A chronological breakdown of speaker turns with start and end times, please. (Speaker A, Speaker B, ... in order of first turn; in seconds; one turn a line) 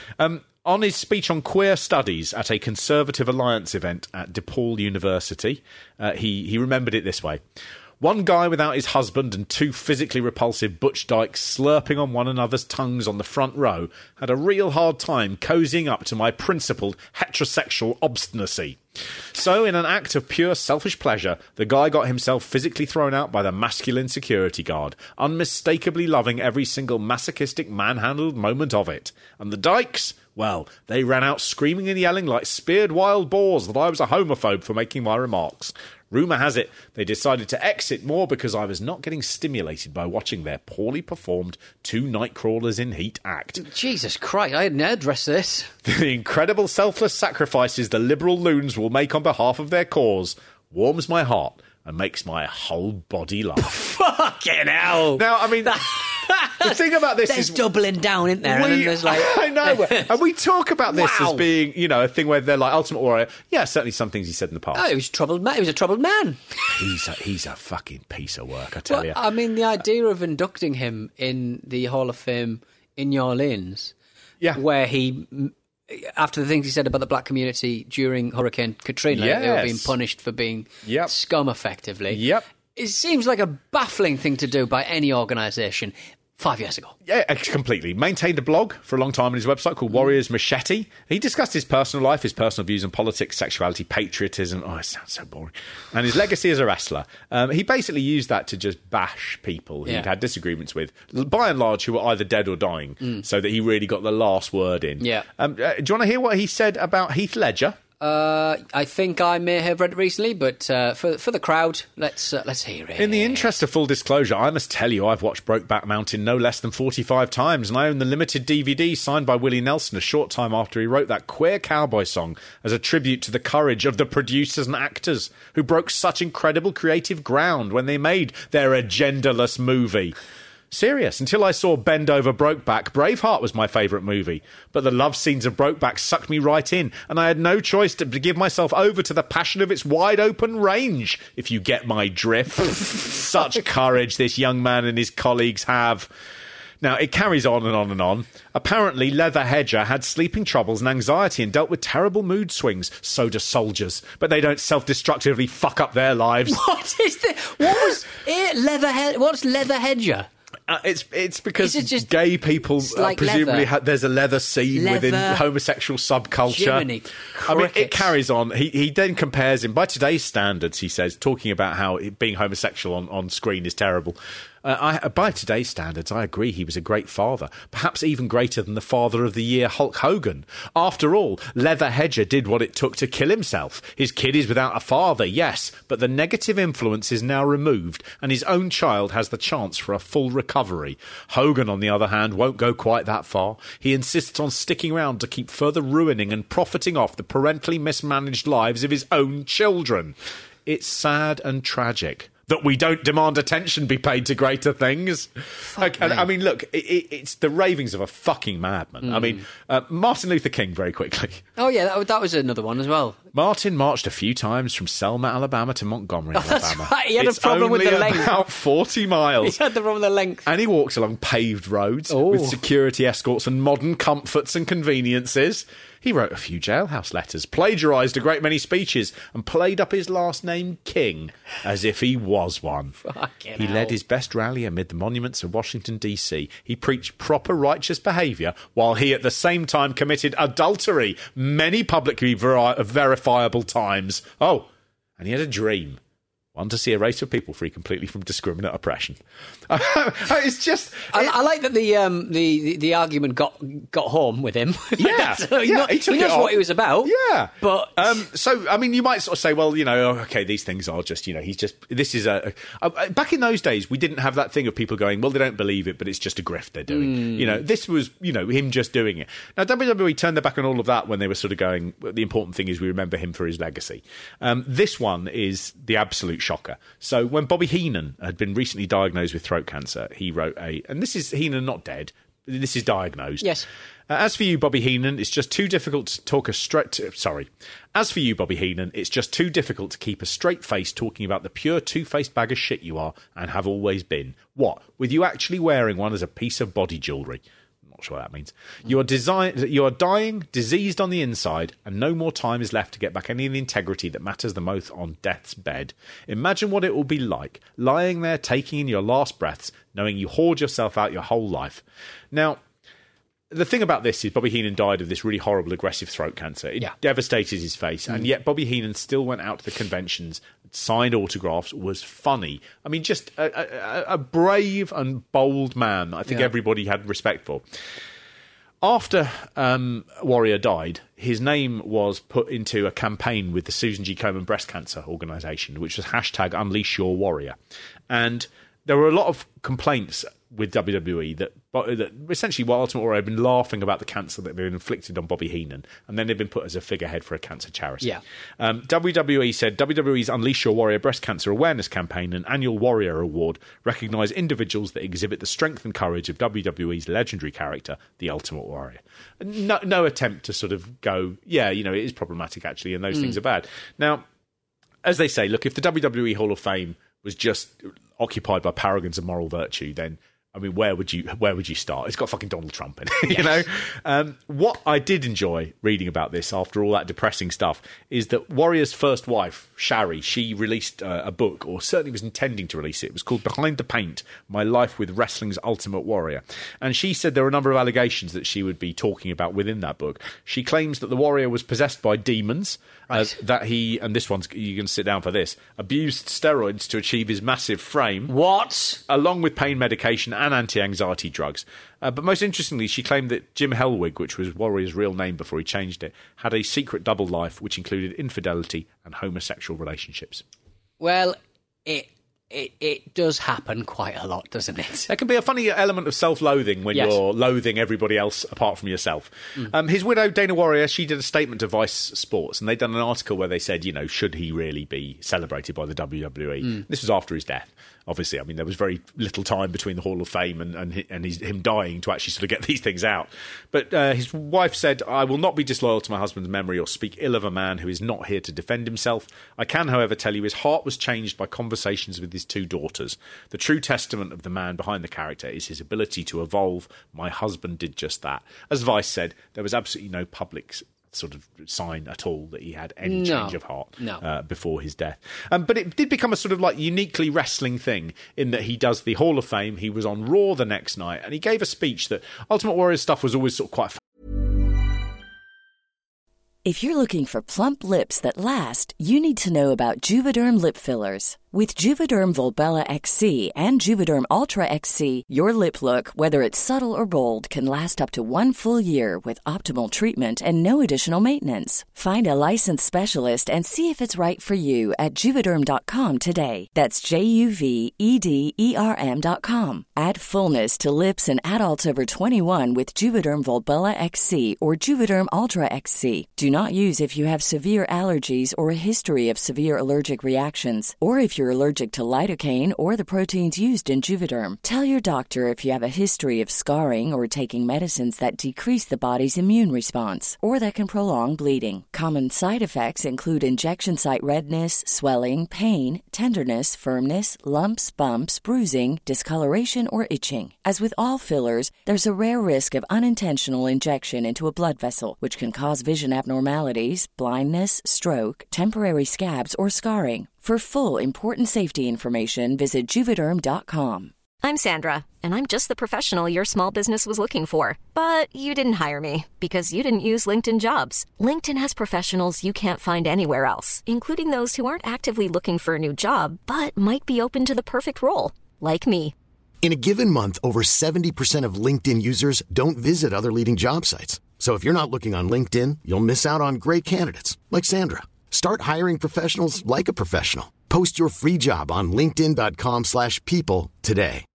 Speaker A: 0.2-7.4
Speaker A: 8.0-43.6
Speaker B: 43.6-45.7
Speaker A: 45.8-53.7
Speaker B: 53.6-60.1
Speaker A: 55.1-55.8
Speaker A: 56.6-57.6
Speaker A: 58.4-64.9
Speaker B: 60.9-61.4
Speaker B: 64.7-66.7
Speaker A: 66.7-69.2
Speaker B: 68.9-73.9
Speaker B: 74.5-82.2
Speaker A: 79.1-79.9
Speaker A: 80.8-81.1
Speaker A: 82.1-82.5
Speaker B: 82.7-86.9
Speaker A: 87.0-107.8
Speaker B: 105.0-105.3
Speaker B: 108.0-113.5
Speaker A: 113.0-130.2
Speaker A: 130.7-146.1
Speaker A: 146.8-156.6
Speaker B: 156.5-160.3
Speaker A: 157.6-158.0
Speaker A: 160.7-166.9
Speaker B: 161.6-162.1
Speaker B: 162.8-163.7
Speaker B: 164.7-165.4
Speaker B: 166.5-168.1
Speaker A: 167.4-211.4
Speaker B: 205.7-206.2
Speaker B: 209.0-209.4
Speaker B: 211.6-213.2
Speaker A: 213.3-219.6
Speaker B: 216.3-218.3
Speaker B: 219.4-220.4
Speaker A: 220.4-233.0
Speaker B: 222.1-222.6
Speaker B: 233.0-233.9
Speaker A: 233.5-246.0
Speaker A: 246.5-251.3
Speaker B: 251.1-258.2
Speaker A: 255.0-283.6
Speaker B: 266.9-267.6
Speaker B: 283.4-283.6
Speaker A: 284.1-312.6
Speaker A: 313.5-327.6
Speaker A: 328.8-337.6
Speaker A: 338.1-364.2
Speaker B: 363.1-363.4
Speaker A: 365.0-398.3
Speaker B: 373.2-373.6
Speaker B: 393.1-393.3
Speaker B: 398.3-399.0
Speaker A: 399.1-410.4
Speaker B: 411.0-415.1
Speaker A: 415.1-464.0
Speaker B: 416.9-417.2
Speaker B: 453.0-454.2
Speaker C: 466.6-534.1
Speaker D: 534.4-549.1
Speaker E: 549.6-564.2